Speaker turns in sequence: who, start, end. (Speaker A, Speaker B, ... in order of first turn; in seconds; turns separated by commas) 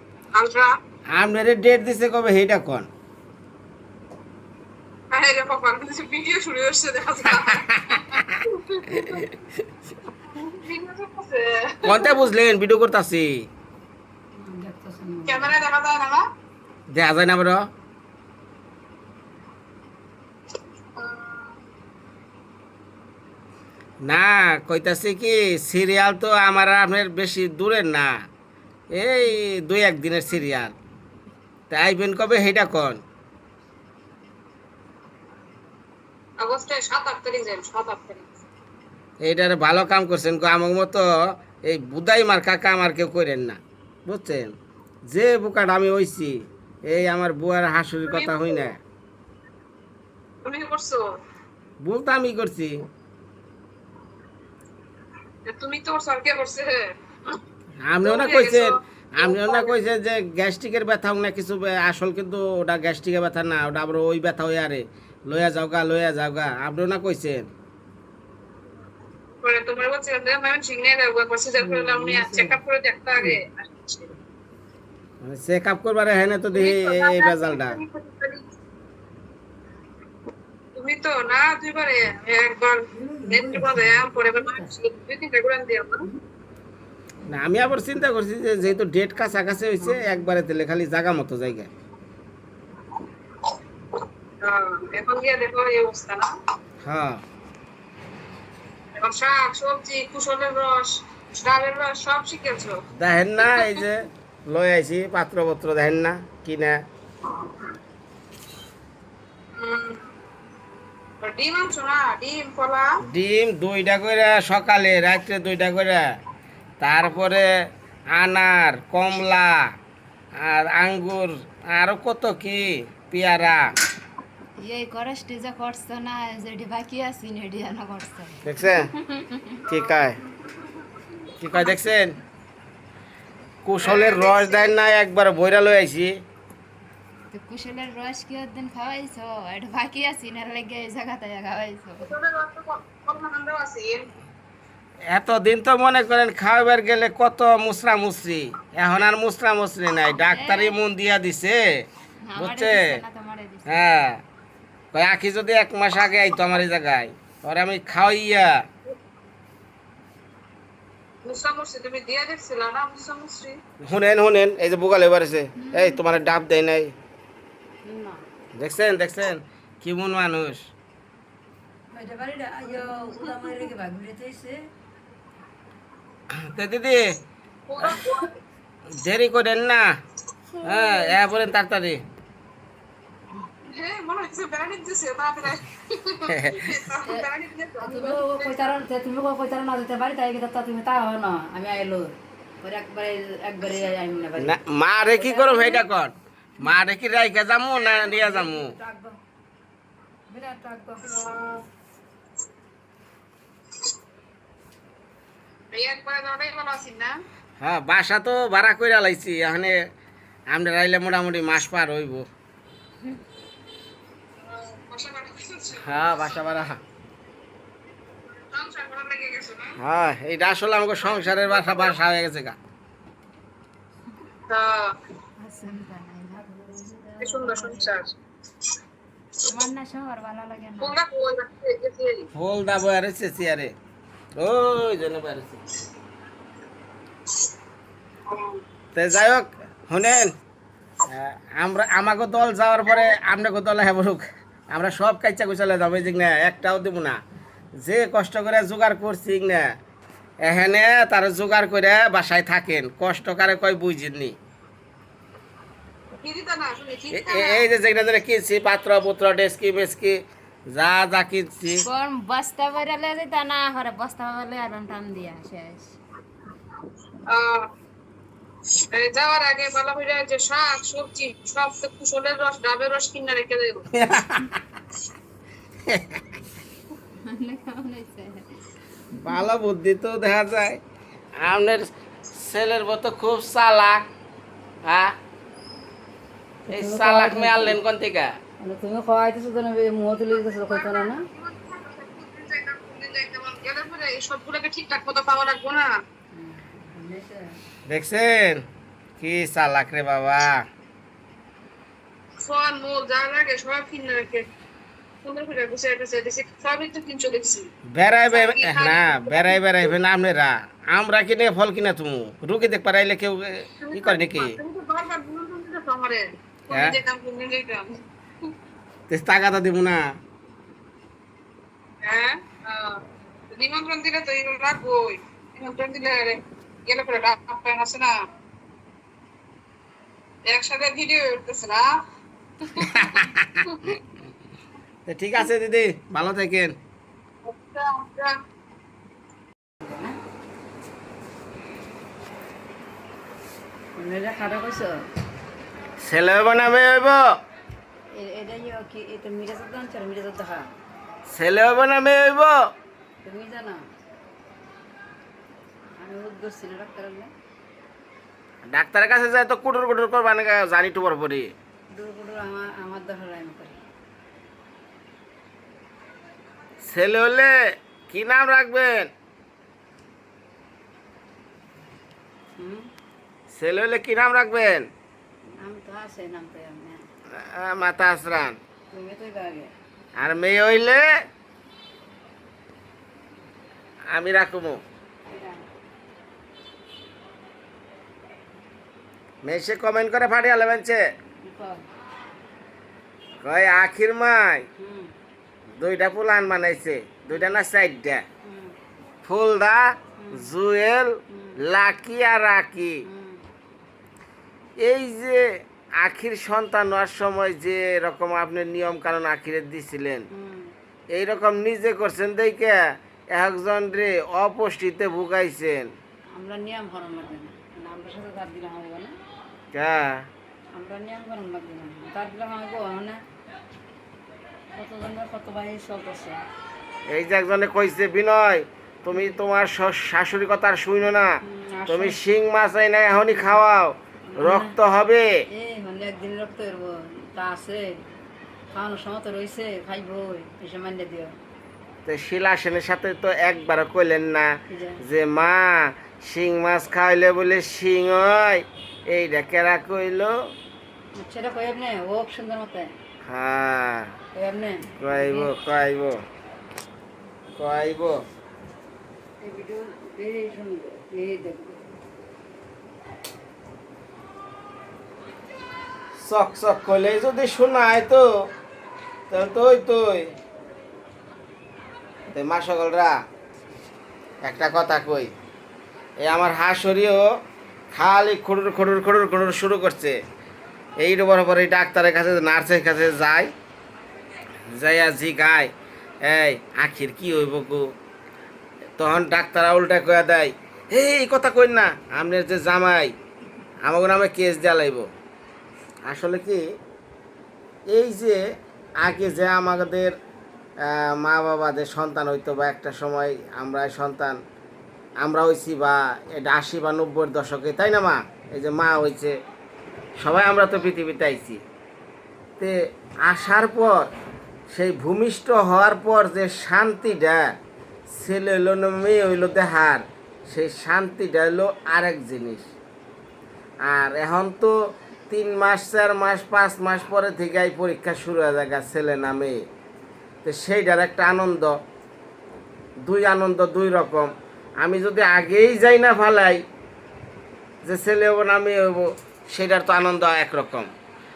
Speaker A: 0.3-0.7, Speaker B: 1.1-2.9, Speaker A: 5.1-9.3, Speaker B: 7.5-8.4, Speaker B: 8.9-9.2, Speaker A: 10.3-12.2, Speaker B: 11.8-13.5, Speaker C: 14.3-15.6, Speaker A: 15.3-16.2, Speaker B: 16.9-17.7, Speaker A: 20.9-21.5, Speaker B: 24.0-28.1, Speaker B: 28.9-30.8, Speaker B: 31.7-33.0, Speaker A: 36.4-38.3, Speaker B: 39.2-41.1, Speaker B: 41.6-44.5, Speaker B: 45.1-48.8, Speaker A: 48.0-48.6, Speaker A: 50.4-51.0, Speaker B: 51.8-52.9, Speaker A: 55.5-56.9, Speaker B: 57.8-67.5, Speaker A: 58.0-59.8, Speaker A: 69.4-74.2, Speaker C: 71.5-72.6, Speaker B: 75.2-77.8, Speaker A: 76.5-78.4, Speaker A: 80.8-86.0, Speaker C: 83.0-84.0, Speaker B: 87.3-91.7, Speaker A: 94.4-96.3, Speaker B: 96.8-97.2, Speaker A: 99.0-102.8, Speaker B: 102.9-106.8, Speaker A: 103.4-103.8, Speaker A: 107.3-107.7, Speaker A: 109.6-110.0, Speaker A: 111.2-113.0, Speaker B: 113.0-116.0, Speaker B: 116.8-117.5, Speaker B: 118.1-119.7, Speaker B: 120.4-123.7, Speaker D: 124.6-129.5, Speaker B: 128.4-128.9, Speaker A: 129.7-130.1, Speaker B: 129.7-130.2, Speaker B: 131.4-132.1, Speaker B: 133.6-136.2, Speaker A: 133.8-134.7, Speaker D: 137.3-142.1, Speaker A: 142.0-144.1, Speaker B: 145.1-151.8, Speaker D: 150.1-150.8, Speaker D: 152.2-153.8, Speaker B: 152.4-153.0, Speaker B: 153.7-154.2, Speaker B: 154.9-158.6, Speaker A: 161.2-163.6, Speaker B: 163.8-166.9, Speaker D: 165.6-166.0, Speaker C: 167.8-168.2, Speaker B: 168.6-170.7, Speaker C: 171.9-174.6, Speaker B: 176.3-177.2, Speaker A: 177.7-178.3, Speaker B: 179.0-179.9, Speaker B: 180.6-182.0, Speaker A: 183.7-188.6, Speaker B: 186.3-186.8, Speaker C: 186.9-187.2, Speaker C: 187.8-194.6, Speaker B: 194.4-198.7, Speaker C: 195.1-195.8, Speaker C: 198.0-199.2, Speaker C: 200.3-201.1, Speaker A: 201.1-201.6, Speaker A: 205.7-207.1, Speaker B: 207.6-209.8, Speaker B: 210.5-212.3, Speaker A: 214.4-216.2, Speaker B: 215.8-216.8, Speaker A: 218.5-219.8, Speaker B: 219.8-222.6, Speaker A: 221.0-222.0, Speaker A: 224.5-225.0, Speaker D: 225.4-227.9, Speaker A: 227.2-228.1, Speaker D: 229.5-231.0, Speaker A: 230.8-232.3, Speaker B: 232.3-233.7, Speaker B: 234.4-235.6, Speaker A: 238.3-238.6, Speaker B: 238.9-240.3, Speaker B: 241.0-247.2, Speaker B: 247.8-249.7, Speaker B: 250.4-254.3, Speaker A: 256.2-257.7, Speaker B: 257.1-261.9, Speaker D: 261.8-266.0, Speaker A: 267.3-267.7, Speaker A: 268.7-273.9, Speaker B: 273.9-274.6, Speaker B: 275.8-276.2, Speaker D: 277.2-278.4, Speaker B: 279.2-280.8, Speaker B: 281.4-284.1, Speaker B: 284.9-285.1, Speaker C: 286.6-287.8, Speaker B: 286.7-288.3, Speaker C: 288.6-291.2, Speaker A: 290.6-296.0, Speaker C: 296.3-297.5, Speaker B: 297.9-298.6, Speaker B: 299.2-300.6, Speaker A: 302.4-304.5, Speaker A: 305.2-307.7, Speaker B: 307.9-314.6, Speaker A: 308.3-309.9, Speaker A: 313.8-318.5, Speaker B: 316.7-317.0, Speaker B: 319.1-320.0, Speaker A: 322.0-328.1, Speaker A: 330.5-332.0, Speaker A: 332.6-333.8, Speaker B: 332.8-333.6, Speaker B: 335.1-336.8, Speaker A: 337.4-338.4, Speaker C: 339.8-340.2, Speaker C: 344.0-345.0, Speaker B: 346.0-347.2, Speaker C: 348.1-350.7, Speaker B: 351.3-352.6, Speaker C: 353.2-353.8, Speaker C: 356.0-357.3, Speaker B: 358.7-361.5, Speaker C: 361.9-363.8, Speaker B: 366.8-369.1, Speaker C: 372.6-372.9, Speaker B: 373.5-374.9, Speaker C: 375.6-377.0, Speaker B: 377.3-378.6, Speaker C: 378.9-379.7, Speaker B: 380.2-381.1, Speaker B: 384.1-384.8, Speaker C: 385.3-385.6, Speaker B: 389.4-391.1, Speaker C: 391.4-391.8, Speaker B: 393.4-394.6, Speaker C: 394.8-395.1, Speaker B: 395.8-398.2, Speaker C: 398.4-398.8, Speaker B: 399.2-403.0, Speaker C: 400.2-400.5, Speaker C: 401.3-401.6, Speaker C: 403.0-403.4, Speaker B: 404.8-410.2, Speaker C: 410.3-410.7, Speaker B: 411.1-415.9, Speaker C: 416.3-419.1, Speaker B: 419.7-420.3, Speaker C: 420.7-423.2, Speaker C: 424.8-426.4, Speaker B: 427.1-435.4, Speaker C: 431.4-432.2, Speaker C: 434.3-434.8, Speaker C: 435.5-438.0, Speaker C: 438.7-441.3, Speaker B: 442.1-450.4, Speaker C: 444.7-445.0, Speaker C: 451.1-452.9, Speaker B: 453.2-454.1, Speaker C: 454.4-455.5, Speaker B: 455.0-456.2, Speaker B: 457.6-458.2, Speaker C: 459.4-461.9, Speaker B: 466.2-468.3, Speaker B: 469.3-470.3, Speaker B: 472.3-473.1, Speaker B: 474.4-475.3, Speaker B: 476.2-477.2, Speaker B: 477.9-480.2, Speaker B: 481.0-483.5, Speaker B: 484.7-485.7, Speaker B: 486.2-487.9, Speaker B: 489.0-493.1, Speaker B: 493.8-495.1, Speaker B: 496.1-496.6, Speaker B: 497.9-498.4, Speaker B: 499.0-500.1, Speaker B: 500.8-504.4, Speaker B: 505.2-509.4, Speaker B: 510.2-511.6, Speaker B: 512.6-514.1, Speaker B: 514.7-517.5, Speaker B: 518.1-522.7, Speaker B: 523.8-524.8, Speaker B: 525.3-529.6, Speaker B: 530.4-531.8, Speaker B: 533.0-536.6, Speaker B: 537.8-540.9